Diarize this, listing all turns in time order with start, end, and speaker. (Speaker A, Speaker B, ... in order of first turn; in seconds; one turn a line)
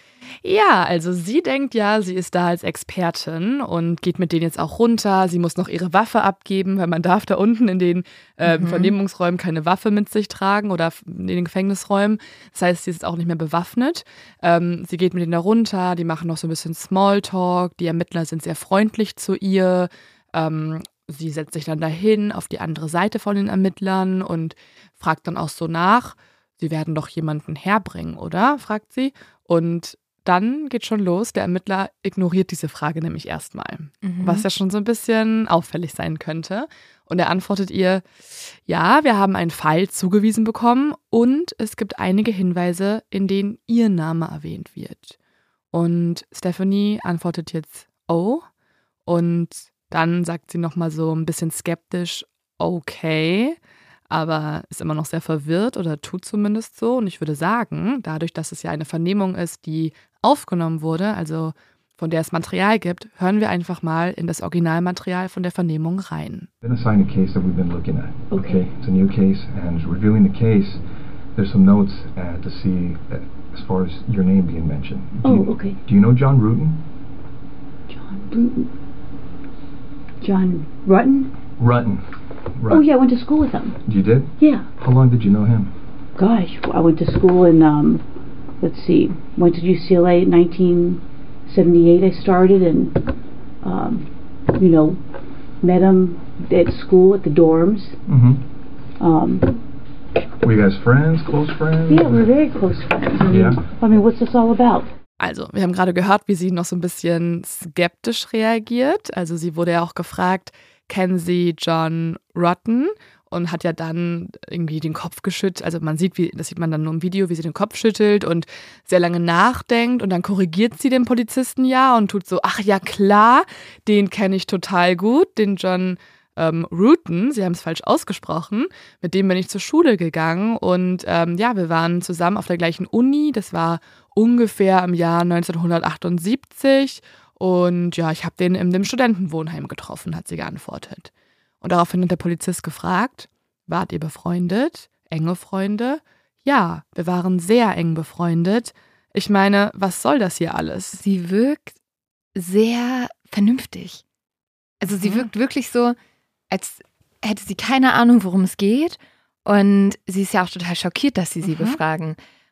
Speaker A: 0.4-38.1
Speaker B: 8.4-8.9
Speaker B: 34.0-34.5
Speaker A: 38.6-45.1
Speaker A: 45.7-48.4
Speaker A: 49.1-53.6
Speaker A: 54.1-66.5
Speaker C: 66.6-76.8
Speaker D: 68.3-68.6
Speaker D: 75.2-75.8
Speaker D: 77.9-78.7
Speaker D: 80.2-81.3
Speaker C: 81.6-82.8
Speaker D: 82.7-83.8
Speaker C: 83.8-85.7
Speaker D: 84.4-84.7
Speaker D: 86.2-88.0
Speaker D: 88.6-93.0
Speaker D: 93.6-95.0
Speaker D: 95.6-98.0
Speaker C: 98.1-98.4
Speaker D: 99.0-99.5
Speaker C: 100.4-102.2
Speaker D: 101.9-104.9
Speaker C: 103.3-103.6
Speaker A: 105.2-141.1
Speaker A: 141.6-151.0
Speaker B: 150.9-151.8
Speaker B: 152.3-154.0
Speaker B: 154.8-155.9
Speaker A: 155.0-155.3
Speaker B: 156.5-162.2
Speaker A: 161.4-161.8